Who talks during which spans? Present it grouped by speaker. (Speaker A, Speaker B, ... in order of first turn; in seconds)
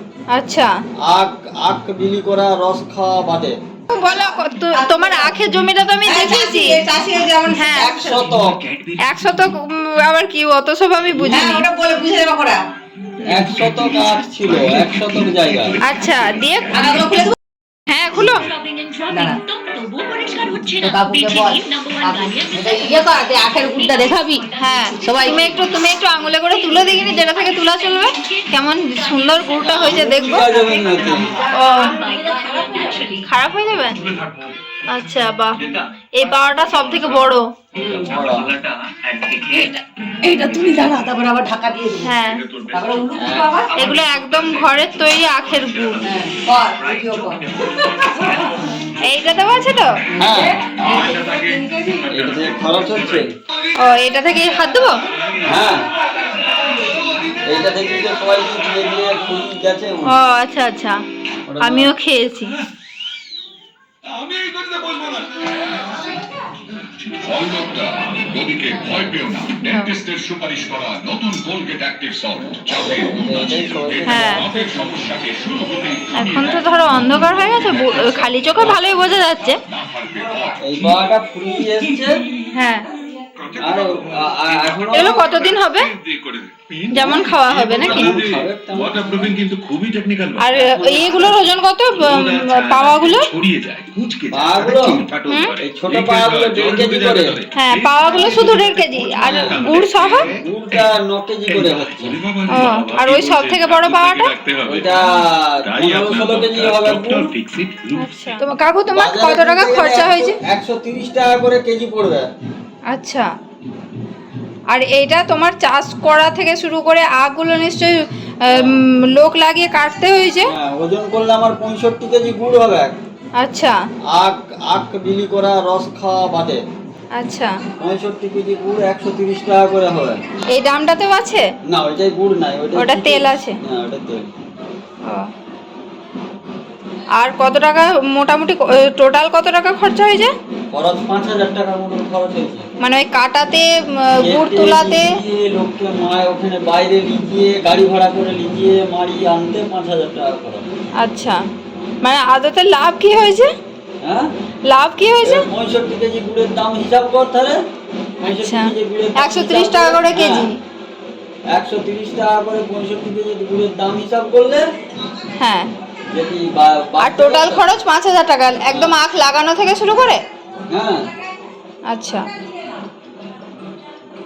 Speaker A: 0.3-0.7, 3.9-6.8, 7.5-7.9, 9.0-11.7, 15.8-17.3, 17.9-18.4, 24.6-30.5, 31.5-32.0, 33.2-34.0, 34.9-35.6, 36.1-37.5, 42.0-42.4, 43.7-46.0, 49.0-49.9, 53.8-55.0, 60.1-61.0, 61.6-62.5, 69.7-70.0, 74.0-74.5, 76.1-79.6, 82.5-82.8, 84.9-85.9, 86.9-88.1, 90.4-93.3, 95.3-95.5, 97.5-100.3, 102.5-104.3, 108.0-110.4, 112.9-113.3, 114.7-120.5, 123.4-123.8, 127.2-127.5, 130.5-131.4, 132.7-133.6, 137.2-140.3, 142.8-145.1, 151.0-151.4, 152.0-153.5, 154.7-155.4, 158.4-160.5, 165.4-165.7, 167.0-170.2, 171.9-172.3
Speaker B: 1.0-3.6, 7.7-8.6, 13.2-15.8, 29.6-31.3, 37.9-38.5, 43.2-43.5, 50.2-50.6, 52.1-53.3, 55.4-55.9, 57.5-60.1, 61.5-61.9, 72.7-74.6, 80.6-82.2, 83.6-85.2, 87.8-89.3, 90.5-91.4, 94.3-95.0, 95.6-97.3, 99.2-99.6, 100.2-102.2, 104.6-107.3, 108.9-112.3, 118.5-118.8, 120.5-123.0, 124.1-126.6, 127.8-130.2, 131.7-134.3, 140.7-142.7, 144.2-150.6, 154.0-154.3, 155.2-157.6, 158.2-160.5, 161.5-164.7, 166.1-167.7, 168.7-168.9, 170.7-171.1
Speaker C: 3.9-5.4, 6.0-8.2, 11.2-12.6, 16.7-17.4, 19.1-19.4, 20.8-25.6, 31.1-33.2, 37.8-38.3, 39.5-42.2, 42.7-43.9, 46.0-48.5, 50.1-52.1
Speaker D: 8.2-9.5, 13.3-16.8, 34.1-34.5, 36.5-37.3, 37.9-39.7, 42.1-46.0, 46.6-49.5, 50.7-53.2, 55.3-55.6, 64.0-65.4, 67.0-81.0, 83.4-90.6, 91.9-100.8, 101.5-108.4
Speaker E: 18.1-33.2